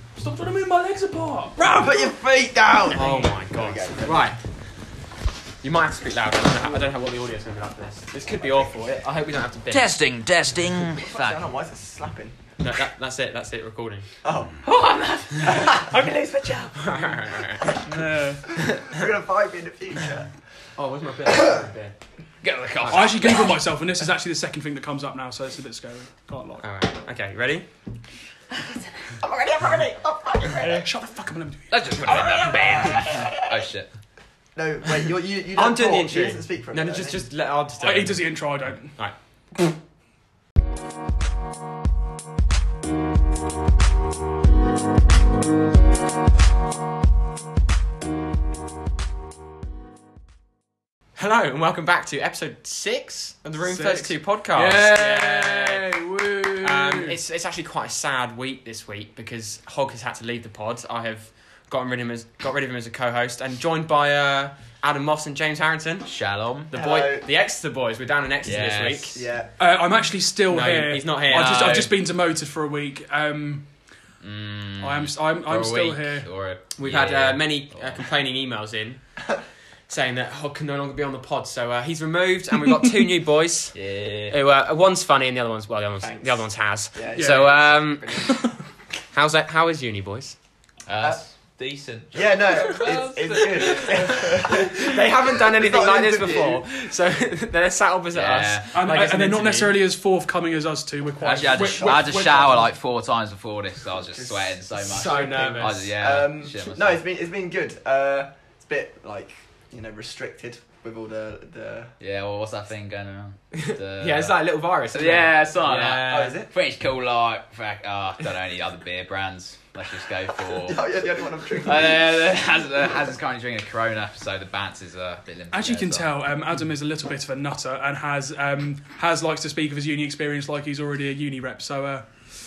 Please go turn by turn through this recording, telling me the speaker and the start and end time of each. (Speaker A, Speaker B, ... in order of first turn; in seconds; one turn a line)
Speaker A: 0.1-1.7
Speaker B: 1.6-4.3
Speaker C: 2.9-4.4
Speaker C: 5.6-9.9
Speaker D: 9.7-11.4
Speaker B: 10.9-12.4
Speaker C: 12.6-14.1
Speaker B: 14.2-14.6
Speaker D: 14.6-16.7
Speaker C: 15.4-15.7
Speaker B: 15.5-15.9
Speaker C: 16.7-17.7
Speaker A: 17.9-18.5
Speaker C: 18.7-19.0
Speaker B: 18.9-20.3
Speaker C: 20.8-21.9
Speaker B: 21.2-21.7
Speaker D: 22.4-23.6
Speaker A: 22.8-26.6
Speaker C: 26.6-27.7
Speaker B: 29.2-30.8
Speaker A: 30.5-32.8
Speaker D: 31.7-33.9
Speaker B: 32.7-33.6
Speaker B: 34.5-37.3
Speaker C: 35.5-38.3
Speaker A: 37.8-39.0
Speaker C: 51.2-55.9
Speaker A: 53.6-57.2
Speaker C: 56.6-66.1
Speaker D: 66.0-66.7
Speaker C: 66.7-69.2
Speaker B: 66.7-67.2
Speaker D: 68.4-69.2
Speaker B: 69.1-69.5
Speaker A: 69.6-73.7
Speaker C: 70.5-71.9
Speaker D: 71.3-71.9
Speaker D: 74.2-78.0
Speaker A: 74.8-76.3
Speaker C: 76.7-79.0
Speaker C: 79.9-88.4
Speaker D: 83.7-84.3
Speaker B: 86.0-88.5
Speaker A: 87.1-87.5
Speaker A: 88.2-88.5
Speaker C: 89.1-90.3
Speaker D: 90.9-94.6
Speaker B: 92.1-96.7
Speaker C: 92.7-99.8
Speaker D: 98.1-99.0
Speaker A: 98.7-102.7
Speaker D: 101.2-107.0
Speaker B: 101.2-102.6
Speaker B: 104.1-111.9
Speaker C: 104.8-105.8
Speaker D: 112.0-114.4
Speaker C: 113.5-116.3
Speaker D: 114.9-120.9
Speaker B: 116.0-116.5
Speaker B: 120.4-122.1
Speaker D: 121.6-126.1
Speaker A: 125.5-132.1